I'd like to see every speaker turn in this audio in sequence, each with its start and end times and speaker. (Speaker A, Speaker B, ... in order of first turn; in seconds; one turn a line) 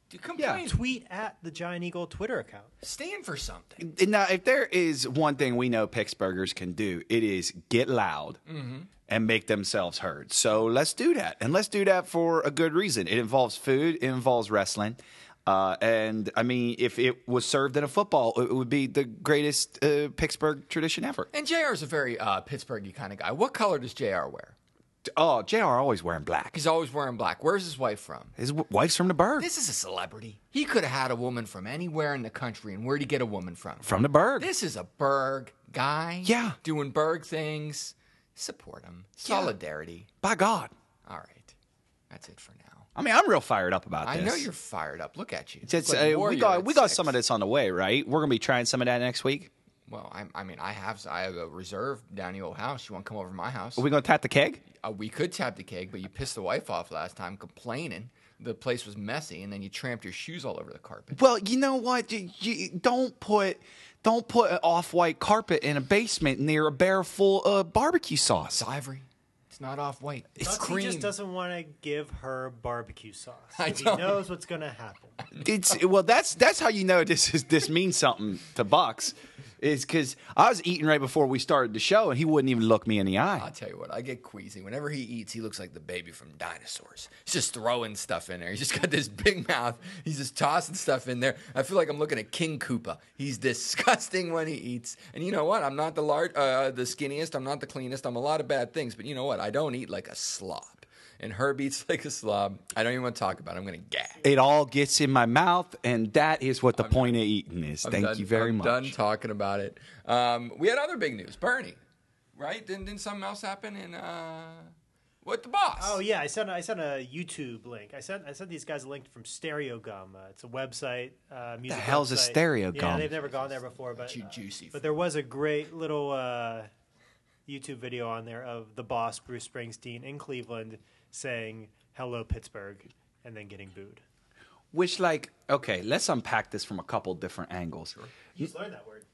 Speaker A: 0.1-0.8
Speaker B: 0.4-0.6
Speaker C: 0.6-2.7
Speaker A: 2.8-3.9
Speaker B: 3.8-8.4
Speaker A: 8.4-8.9
Speaker B: 9.1-21.3
Speaker A: 21.3-24.6
Speaker B: 25.1-26.5
Speaker A: 26.5-28.3
Speaker B: 28.4-29.5
Speaker A: 29.4-40.1
Speaker B: 33.8-34.5
Speaker B: 36.2-36.6
Speaker B: 39.2-39.5
Speaker B: 40.2-40.7
Speaker A: 41.0-41.5
Speaker A: 42.1-42.9
Speaker B: 43.0-44.5
Speaker A: 44.0-47.2
Speaker B: 45.6-49.5
Speaker A: 49.9-53.8
Speaker B: 53.8-54.6
Speaker A: 54.7-61.2
Speaker B: 61.1-68.6
Speaker A: 68.5-71.1
Speaker C: 70.4-75.2
Speaker A: 73.6-74.2
Speaker B: 75.4-83.5
Speaker A: 83.3-104.2
Speaker B: 104.2-108.9
Speaker A: 106.8-107.2
Speaker A: 107.8-111.8
Speaker A: 112.3-116.0
Speaker C: 115.8-126.7
Speaker B: 121.7-123.1
Speaker A: 124.0-124.8
Speaker C: 127.5-134.0
Speaker B: 134.7-137.9
Speaker C: 138.3-139.1